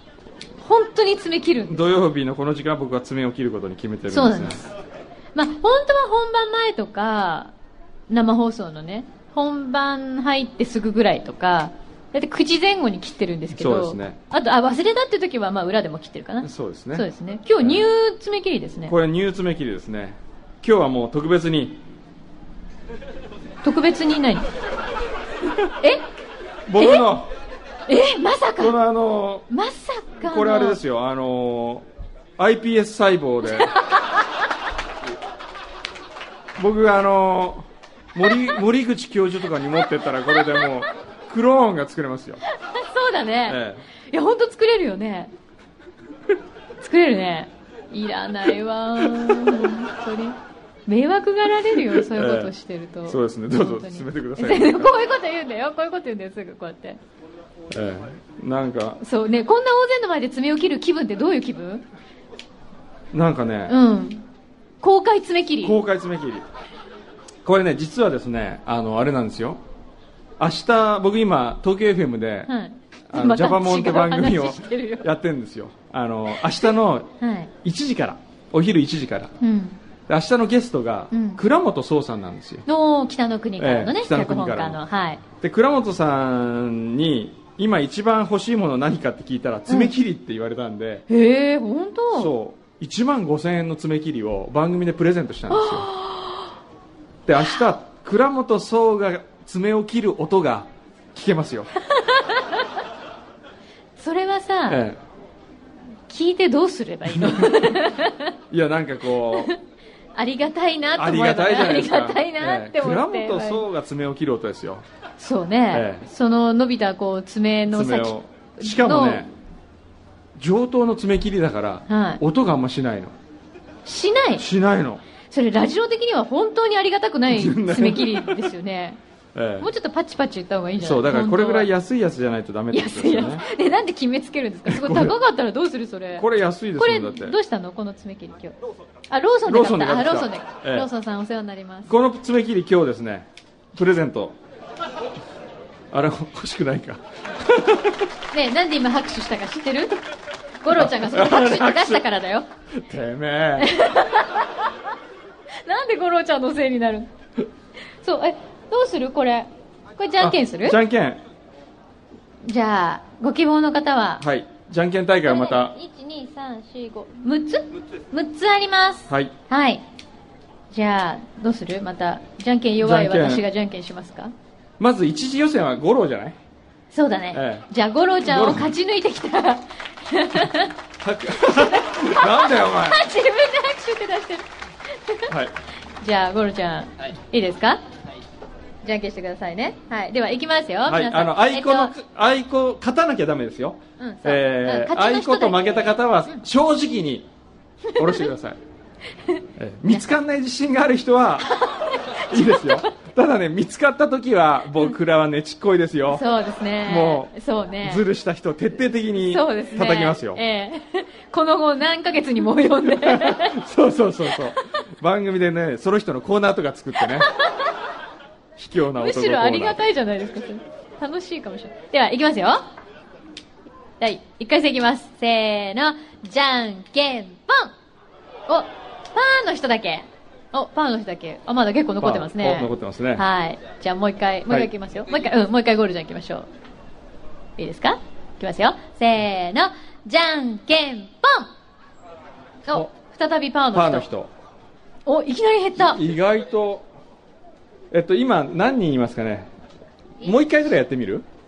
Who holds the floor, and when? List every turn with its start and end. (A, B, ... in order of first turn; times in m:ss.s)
0:00.6-0:01.8 A
0:01.7-0:04.6 B
0:04.1-0:04.7 A
0:05.3-0:07.5 A
0:08.1-0:18.9 A
0:13.5-0:14.2 B
0:16.4-0:17.0 B
0:18.9-0:21.8 B
0:23.6-0:24.5 A
0:25.8-0:26.0 A
0:26.7-0:27.3 B
0:26.8-0:27.0 A
0:27.9-0:28.7 A
0:28.6-0:29.5 B
0:29.5-0:30.8 A
0:30.2-0:31.8 B
0:32.4-0:33.7 B
0:33.4-0:34.0 A
0:36.6-0:42.4 B
0:42.6-0:43.6 A
0:43.5-0:43.8 B
0:44.1-0:45.3 A
0:46.8-0:57.0 A
0:51.9-0:52.5 B
0:53.1-0:54.9 B
0:57.7-0:59.0 B
0:59.0-1:01.8 A
1:03.1-1:03.7 B
1:03.7-1:04.2 A
1:04.8-1:05.8 A
1:05.6-1:06.4 B
1:07.4-1:09.6 B
1:10.4-1:12.5 B
1:12.5-1:15.0 A
1:13.1-1:17.1 B
1:17.2-1:17.5 A
1:17.6-1:19.3 B
1:19.4-1:19.8 A
1:20.1-1:22.6 B
1:21.1-1:21.4 A
1:22.6-1:25.2 A
1:23.6-1:24.8 B
1:25.4-1:31.0 B
1:29.7-1:29.9 A
1:31.1-1:32.3 A
1:32.1-1:35.9 B
1:35.5-1:36.5 A
1:37.2-1:41.7 B
1:37.4-1:37.6 A
1:41.9-1:42.6 A
1:44.0-1:44.8 A
1:44.7-1:45.0 B
1:46.1-1:48.3 A
1:47.1-1:47.7 B
1:48.5-1:49.5 B
1:50.2-1:53.6 A
1:51.0-1:54.8 B
1:55.2-1:59.2 A
1:55.7-1:56.1 B
1:57.7-1:59.3 B
2:00.4-2:03.1 B
2:01.9-2:02.2 A
2:03.8-2:04.4 A
2:04.4-2:05.0 B
2:05.3-2:09.0 A
2:07.3-2:08.4 B
2:09.3-2:09.7 B
2:09.6-2:11.7 A
2:10.8-2:13.4 B
2:12.7-2:16.2 A
2:14.7-2:15.2 B
2:16.2-2:17.4 B
2:16.8-2:18.6 A
2:19.1-2:21.9 A
2:19.4-2:20.9 B
2:21.9-2:24.4 B
2:25.9-2:28.0 B
2:28.3-2:30.0 A
2:30.6-2:32.4 A
2:30.8-2:32.0 B
2:32.7-2:33.7 B
2:33.6-2:34.5 A
2:35.6-2:37.1 A
2:38.0-2:40.8 A
2:40.2-2:41.2 B
2:42.4-2:44.2 A
2:44.2-2:45.7 B
2:45.2-2:49.8 A
2:50.7-2:54.3 A
2:52.8-2:53.4 B
2:54.8-2:56.4 B
2:56.9-3:00.7 A
2:57.3-2:57.6 B
2:58.2-2:58.7 B
3:01.0-3:03.0 B
3:01.4-3:05.3 A
3:05.3-3:05.5 B
3:06.0-3:07.8 A
3:08.8-3:11.9 A
3:10.9-3:17.3 B
3:14.0-3:16.0 A
3:17.9-3:18.3 A
3:18.0-3:18.6 B
3:19.2-3:20.0 A
3:19.6-3:21.5 B
3:21.4-3:22.9 A
3:22.3-3:26.2 B
3:26.1-3:28.0 A
3:26.8-3:27.3 B
3:27.8-3:30.4 B
3:29.3-3:33.5 A
3:33.0-3:37.3 B
3:38.6-3:39.8 B
3:39.0-3:42.6 A
3:44.0-3:47.7 A
3:48.5-3:56.5 A
3:52.0-3:53.2 B
3:57.6-4:01.5 A
4:02.7-4:04.0 A
4:03.7-4:04.3 B
4:05.0-4:06.0 A
4:05.8-4:06.8 B
4:07.9-4:09.5 B
4:10.2-4:11.2 B